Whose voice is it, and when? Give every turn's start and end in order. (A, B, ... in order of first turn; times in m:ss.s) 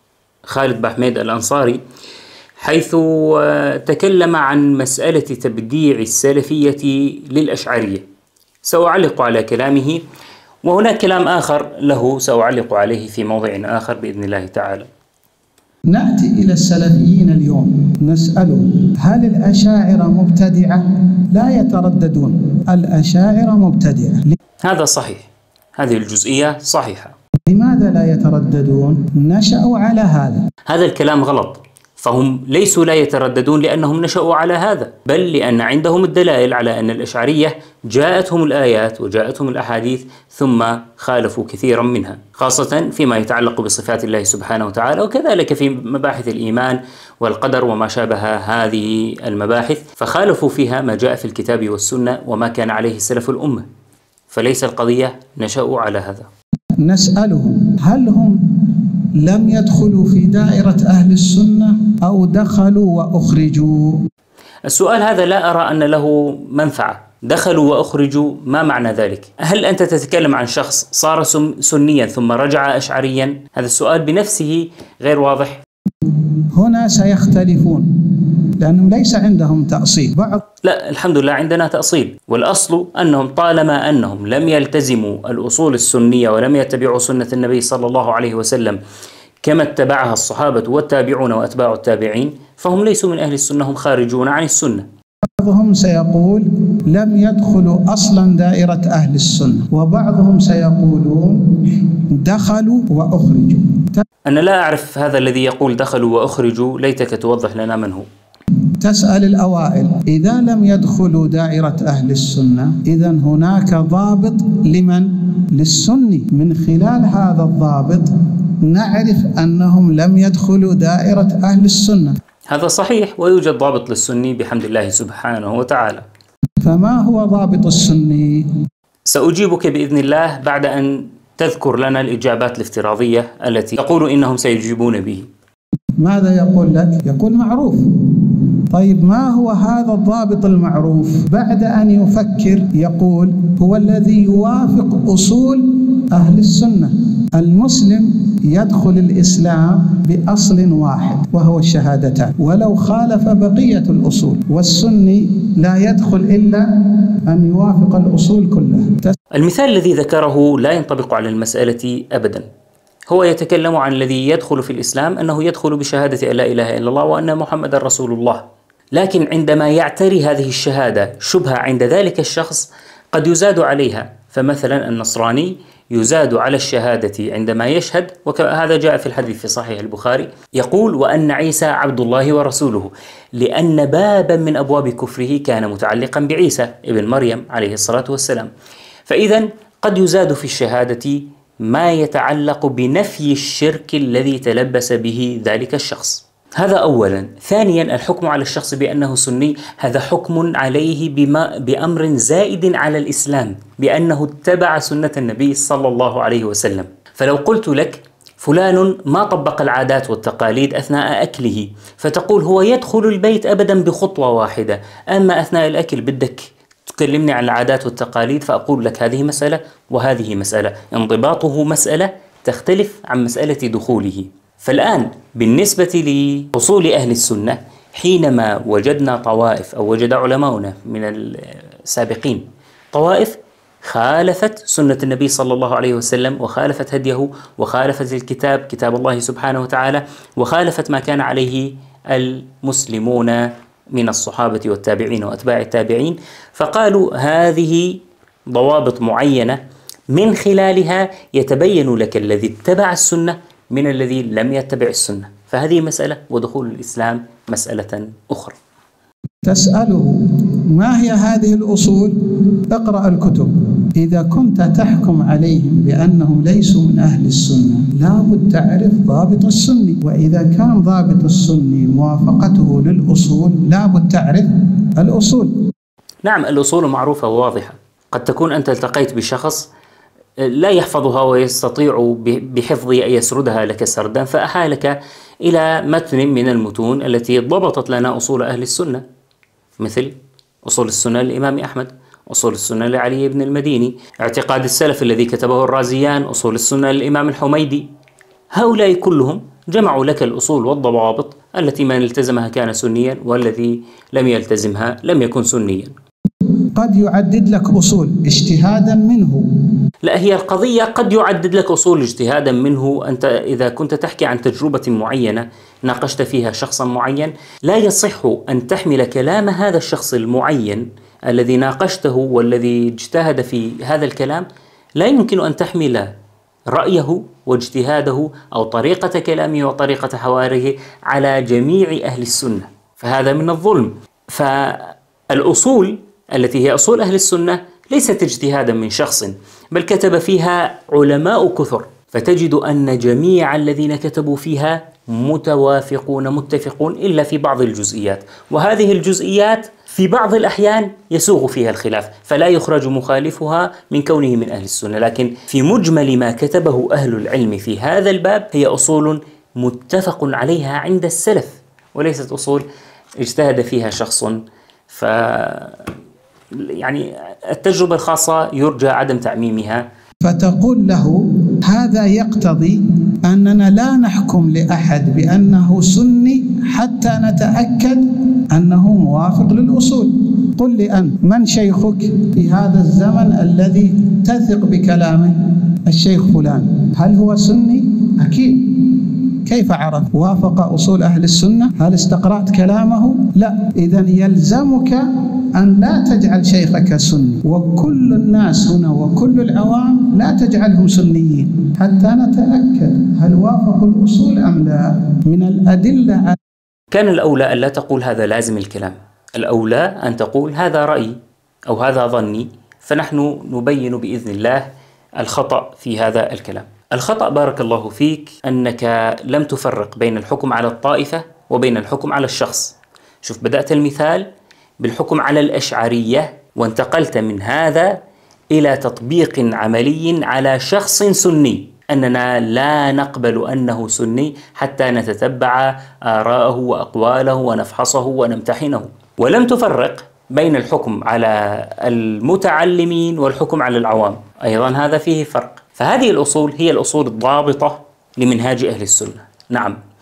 0:00.5-0:01.8 A
0:02.6-0:08.0 A
0:08.6-0:10.0 A
0:10.6-0:14.9 A
0:15.9-0:24.4 B
0:24.6-0:27.1 A
0:27.5-0:30.4 B
0:30.7-0:53.6 A
0:54.3-0:56.3 A
0:56.8-1:04.0 B
1:04.7-1:15.6 A
1:16.6-1:20.4 B
1:20.6-1:28.8 A
1:29.4-1:34.8 A
1:35.4-1:44.0 B
1:44.3-1:48.1 A
1:48.8-1:58.1 B
1:58.6-2:02.2 B
2:02.5-2:06.0 A
2:06.6-2:08.5 B
2:09.1-2:15.3 A
2:16.0-2:36.7 B
2:37.3-2:39.2 B
2:39.3-2:42.5 A
2:43.1-3:08.5 A
3:09.1-4:08.0 A
4:08.5-4:09.6 A
4:10.1-4:18.6 A
4:19.4-4:22.2 B
4:22.7-4:35.5 B
4:36.2-4:39.7 A
4:40.4-4:49.0 A
4:49.8-4:57.9 A
4:58.5-5:05.9 A
5:06.8-5:09.4 B
5:10.0-5:24.4 A
5:25.0-5:26.1 A
5:26.7-6:02.6 A
6:03.2-6:05.9 A
6:06.6-6:09.9 A
6:10.2-6:46.4 B
6:46.9-6:51.2 A
6:51.7-7:04.3 A
7:04.8-7:08.0 A
7:08.5-7:29.8 A